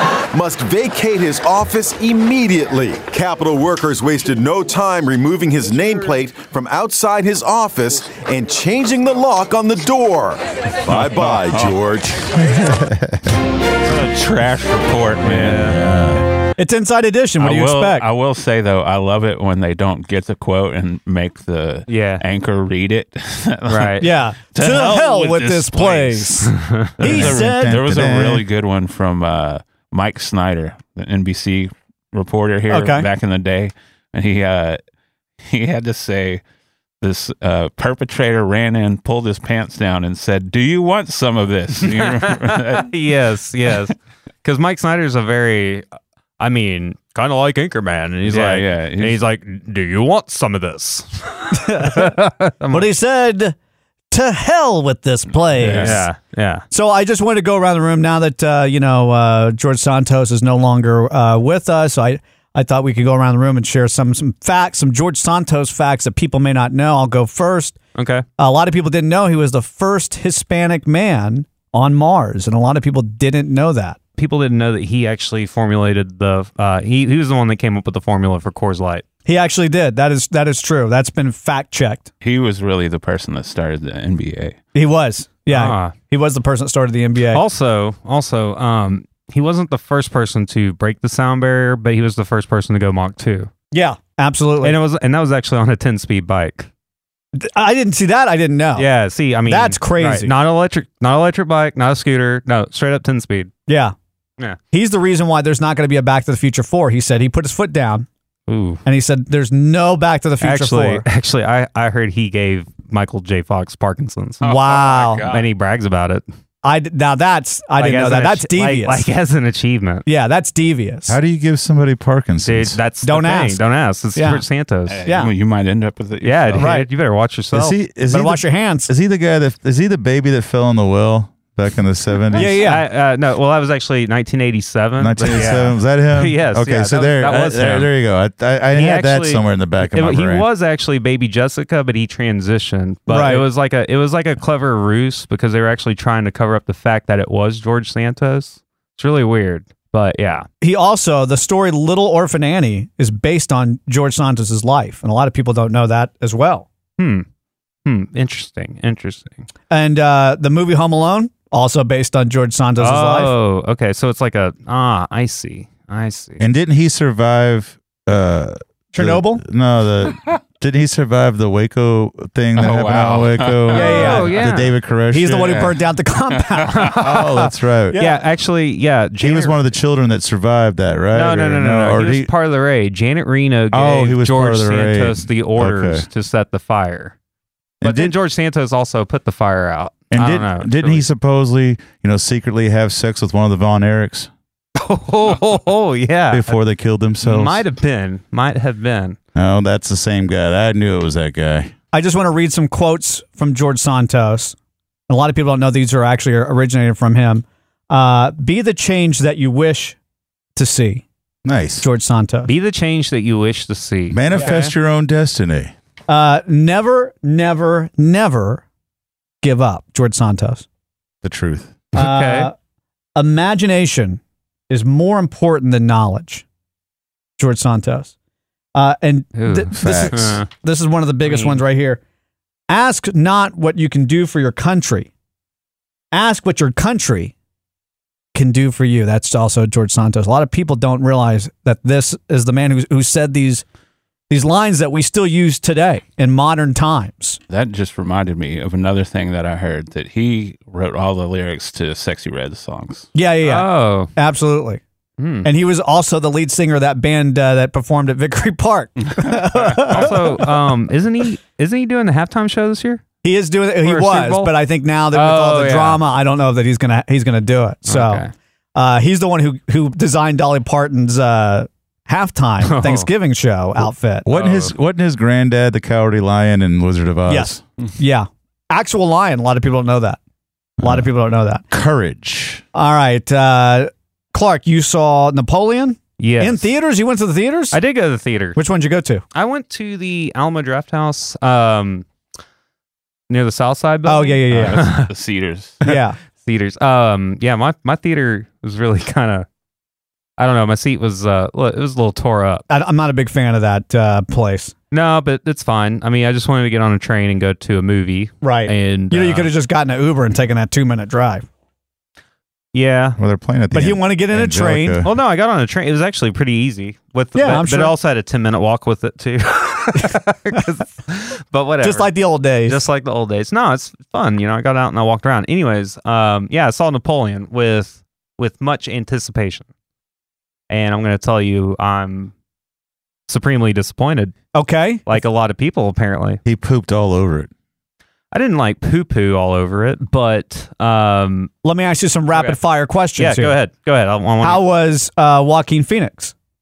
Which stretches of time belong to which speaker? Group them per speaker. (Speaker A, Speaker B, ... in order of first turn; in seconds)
Speaker A: 0.3-12.1
Speaker B: 10.9-11.7, 12.3-13.3, 15.4-16.2, 27.0-28.4, 121.1-122.8, 127.5-132.6, 135.0-140.5, 166.4-175.7, 177.0-178.0, 179.2-182.3, 183.7-186.1, 187.8-188.2, 190.1-194.3, 196.3-197.6, 199.3-201.7, 211.4-211.9, 214.1-215.7, 221.2-221.8, 229.8-230.4, 274.2-277.6, 280.8-281.1, 281.7-282.6, 313.2-315.1, 336.4-337.5
Speaker C: 13.9-15.8, 17.4-34.8, 35.4-36.4, 37.0-42.9, 48.3-49.2, 55.3-56.0, 82.2-84.6, 114.4-115.5, 124.9-126.7, 172.6-174.2, 175.4-175.7, 176.3-176.7, 247.5-253.1, 259.1-260.1, 294.5-295.8
Speaker D: 15.3-15.8, 21.9-22.2, 23.7-24.1, 26.6-26.9, 41.9-45.9, 46.4-52.9, 55.6-56.7, 68.0-68.2, 74.2-79.0, 85.5-86.0, 87.3-93.5, 94.6-96.7, 98.8-103.5, 108.5-108.8, 110.4-114.5, 115.3-116.2, 117.8-120.0, 122.4-125.0, 126.2-127.8, 132.3-137.9, 138.7-150.5, 157.0-157.3, 157.8-159.5, 162.8-166.4, 173.8-174.7, 177.9-179.7, 181.1-187.2, 187.8-191.1, 194.8-196.6, 197.2-199.2, 212.5-214.7, 221.9-222.5, 229.3-230.5, 231.2-231.6, 253.4-254.1, 255.2-255.5, 259.5-263.0, 263.8-264.5, 265.1-266.0, 267.9-268.3, 272.6-273.1, 274.3-274.8, 286.2-286.7, 287.7-288.6, 289.3-292.1, 293.3-295.1, 296.4-299.5, 300.4-302.6, 304.9-309.5, 312.7-313.2, 315.0-329.7, 330.7-332.3, 333.3-334.4, 335.1-336.4, 338.3-341.5, 342.3-342.6, 343.2-344.6
Speaker E: 16.6-18.1, 24.0-27.8, 32.7-33.1, 51.5-52.2, 52.7-53.5, 54.1-56.1, 56.7-67.8, 68.4-74.0, 79.3-82.1, 84.7-87.4, 93.7-94.8, 97.4-98.9, 99.5-100.3, 103.7-104.0, 104.7-108.1, 108.8-111.0, 114.4-115.3, 116.6-119.1, 120.1-121.2, 123.0-123.6, 124.2-124.4, 125.0-125.3, 126.6-126.9, 128.1-128.9, 132.3-132.8, 143.1-143.5, 150.6-156.7, 159.7-163.3, 168.9-169.4, 173.7-174.4, 175.1-178.2, 201.9-204.6, 205.1-210.0, 210.6-211.1, 211.8-212.5, 216.1-218.6, 219.4-220.7, 222.0-222.5, 223.2-226.4, 227.4-228.1, 228.8-232.0, 232.7-235.1, 236.1-237.3, 238.3-243.6, 244.3-247.4, 253.2-254.8, 255.4-260.4, 263.2-268.2, 268.8-274.3, 277.3-280.2, 280.8-281.6, 282.7-287.8, 288.6-289.2, 294.1-294.9, 295.8-296.2, 302.7-304.7, 308.4-311.5, 313.7-315.0, 317.4-317.9, 321.8-322.8, 334.5-335.2, 341.6-343.6, 344.4-346.3